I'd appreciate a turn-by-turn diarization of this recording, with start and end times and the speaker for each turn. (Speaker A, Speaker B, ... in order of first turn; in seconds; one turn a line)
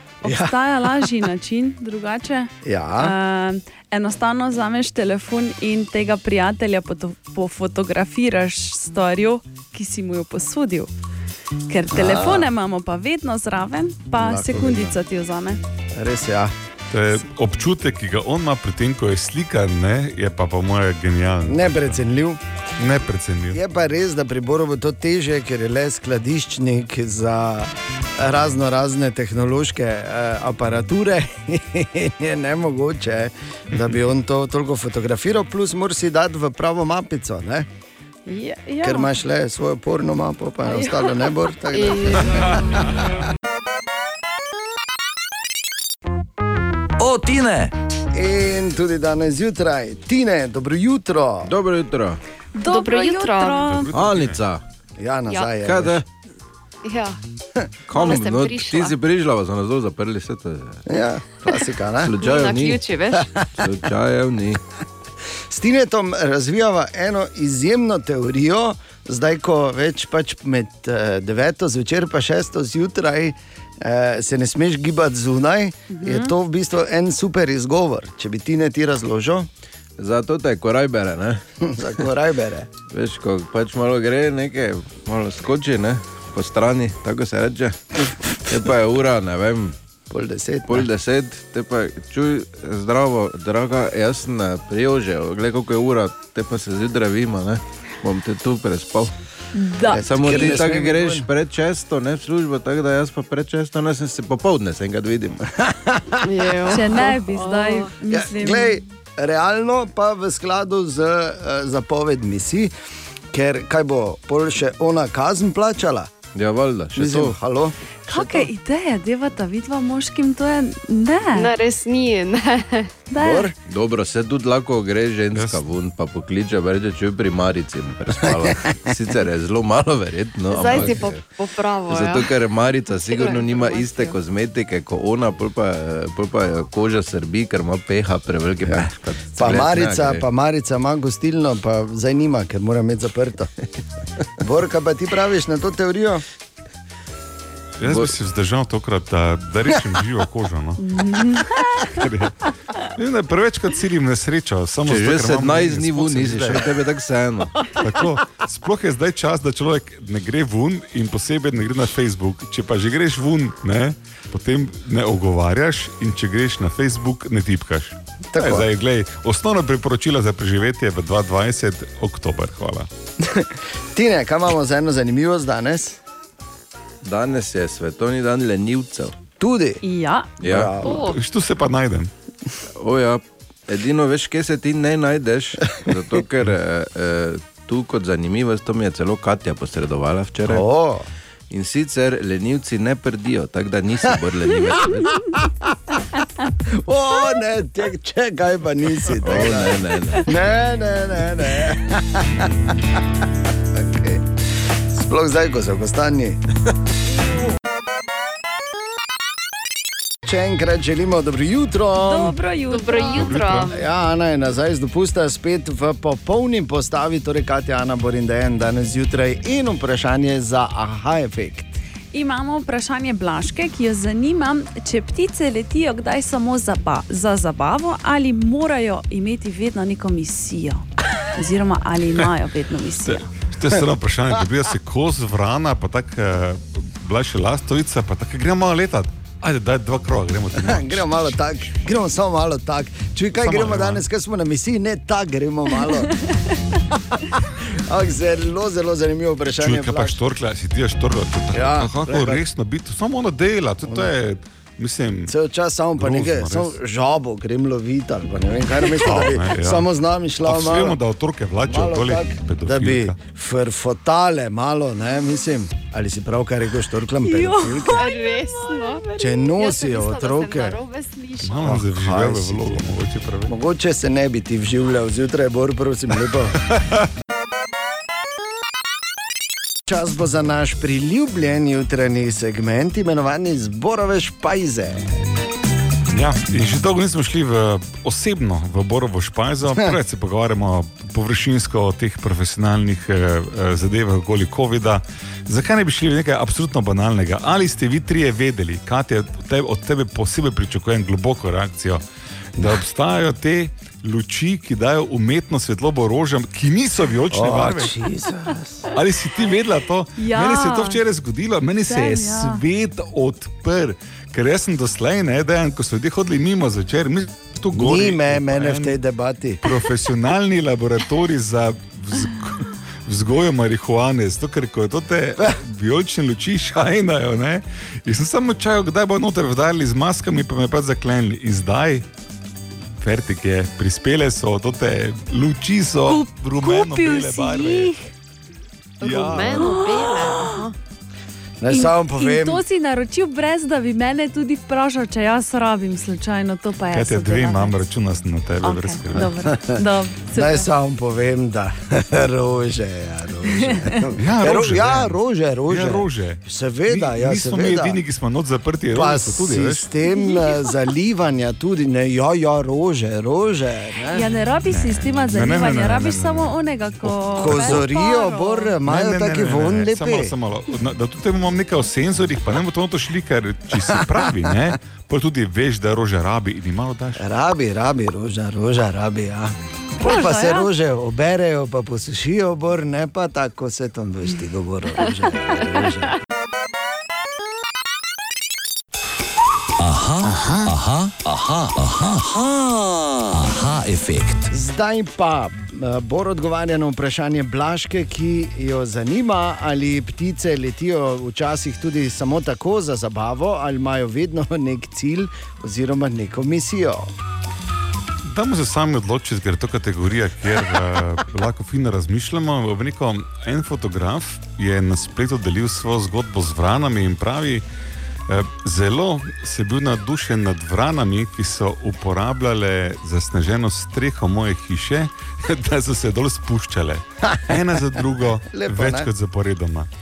Speaker A: 0.2-10.9
Speaker B: 0.2-0.6
Speaker B: 2.6-3.1
Speaker A: 11.7-15.6
Speaker B: 11.9-12.5
Speaker B: 14.1-14.9
Speaker B: 15.9-16.5
Speaker C: 16.9-22.0
Speaker B: 21.4-22.4
Speaker C: 22.8-23.6
Speaker B: 23.5-37.7
Speaker A: 38.3-39.1
Speaker B: 38.8-43.1
Speaker A: 40.6-41.3
Speaker D: 41.7-42.5
Speaker E: 47.0-47.7
Speaker B: 48.1-51.5
Speaker F: 51.4-52.2
Speaker A: 52.5-53.9
Speaker D: 52.6-53.7
Speaker C: 53.6-54.4
Speaker F: 53.9-54.6
Speaker B: 55.0-56.0
Speaker F: 55.6-56.0
Speaker D: 56.8-57.2
Speaker F: 57.9-60.8
Speaker D: 57.9-59.0
Speaker B: 60.9-62.1
Speaker F: 62.0-62.8
Speaker D: 62.2-63.2
Speaker B: 63.1-63.7
Speaker F: 63.6-64.6
Speaker B: 65.5-79.5
Speaker A: 75.9-76.3
Speaker F: 80.0-81.4
Speaker B: 81.6-82.7
Speaker F: 82.9-89.7
Speaker B: 90.1-90.9
Speaker F: 90.7-99.1
Speaker A: 99.5-100.5
Speaker B: 100.0-101.3
Speaker F: 100.0-105.4
Speaker B: 105.7-107.0
Speaker D: 106.2-107.9
Speaker A: 106.7-108.8
Speaker B: 108.1-112.7
Speaker B: 113.3-116.1
Speaker F: 116.3-117.3
Speaker B: 116.9-118.5
Speaker A: 118.1-121.5
Speaker D: 121.3-123.0
Speaker A: 123.1-123.5
Speaker B: 123.2-123.5
Speaker F: 123.7-131.2
Speaker C: 125.3-125.6
Speaker D: 130.5-134.2
Speaker F: 131.9-140.2
Speaker B: 138.7-143.5
Speaker B: 144.4-146.2
Speaker C: 147.8-150.8
Speaker F: 147.9-148.1
Speaker A: 150.8-151.7
Speaker C: 151.9-156.7
Speaker F: 154.8-157.5
Speaker C: 157.8-172.9
Speaker B: 168.3-168.7
Speaker B: 173.2-176.0
Speaker F: 177.0-179.1
Speaker B: 179.4-179.8
Speaker A: 179.8-180.3
Speaker F: 180.4-180.8
Speaker B: 180.4-181.1
Speaker D: 180.8-181.2
Speaker C: 180.9-182.1
Speaker F: 182.8-190.7
Speaker B: 190.5-191.1
Speaker F: 191.5-195.2
Speaker B: 195.3-196.0
Speaker B: 196.6-203.0
Speaker F: 199.2-200.3
Speaker B: 203.7-204.3
Speaker B: 204.9-206.4
Speaker B: 210.2-212.3
Speaker A: 212.0-213.4
Speaker D: 212.7-213.8
Speaker C: 213.1-213.7
Speaker B: 213.7-221.8
Speaker A: 222.1-233.3
Speaker C: 233.1-241.4
Speaker B: 240.5-246.1
Speaker C: 243.4-244.0
Speaker B: 247.1-250.2
Speaker C: 249.6-255.3
Speaker B: 251.5-252.4
Speaker B: 255.3-261.0
Speaker C: 255.9-256.7
Speaker C: 258.9-259.9
Speaker C: 260.4-263.1
Speaker B: 261.7-268.1
Speaker A: 267.2-269.5
Speaker D: 267.9-271.6
Speaker B: 269.2-270.8
Speaker C: 271.4-273.5
Speaker B: 271.6-272.8
Speaker B: 273.5-276.6
Speaker C: 276.7-277.0
Speaker B: 279.9-285.0
Speaker C: 286.1-302.0
Speaker C: 302.5-307.9
Speaker B: 307.3-308.9
Speaker C: 308.9-318.9
Speaker A: 310.2-311.0
Speaker A: 311.9-312.6
Speaker B: 317.7-319.6
Speaker C: 319.6-332.0
Speaker C: 333.0-337.9
Speaker A: 336.1-338.0
Speaker C: 339.0-339.7
Speaker D: 339.0-340.7
Speaker B: 339.1-339.5
Speaker A: 339.6-340.6
Speaker B: 341.6-342.6
Speaker A: 341.7-347.8
Speaker C: 346.9-349.3
Speaker A: 348.6-350.7
Speaker B: 349.1-358.0
Speaker A: 353.5-354.0
Speaker C: 354.2-359.8
Speaker B: 358.9-364.2
Speaker A: 360.1-360.7
Speaker A: 364.1-368.7
Speaker C: 364.7-367.9
Speaker B: 367.4-370.3
Speaker C: 368.9-377.3
Speaker B: 373.8-374.5
Speaker B: 377.1-386.1
Speaker A: 380.0-380.7
Speaker E: 389.8-394.5
Speaker B: 394.5-407.1
Speaker C: 408.3-417.6
Speaker C: 418.3-429.9
Speaker B: 427.2-427.6
Speaker B: 428.5-429.1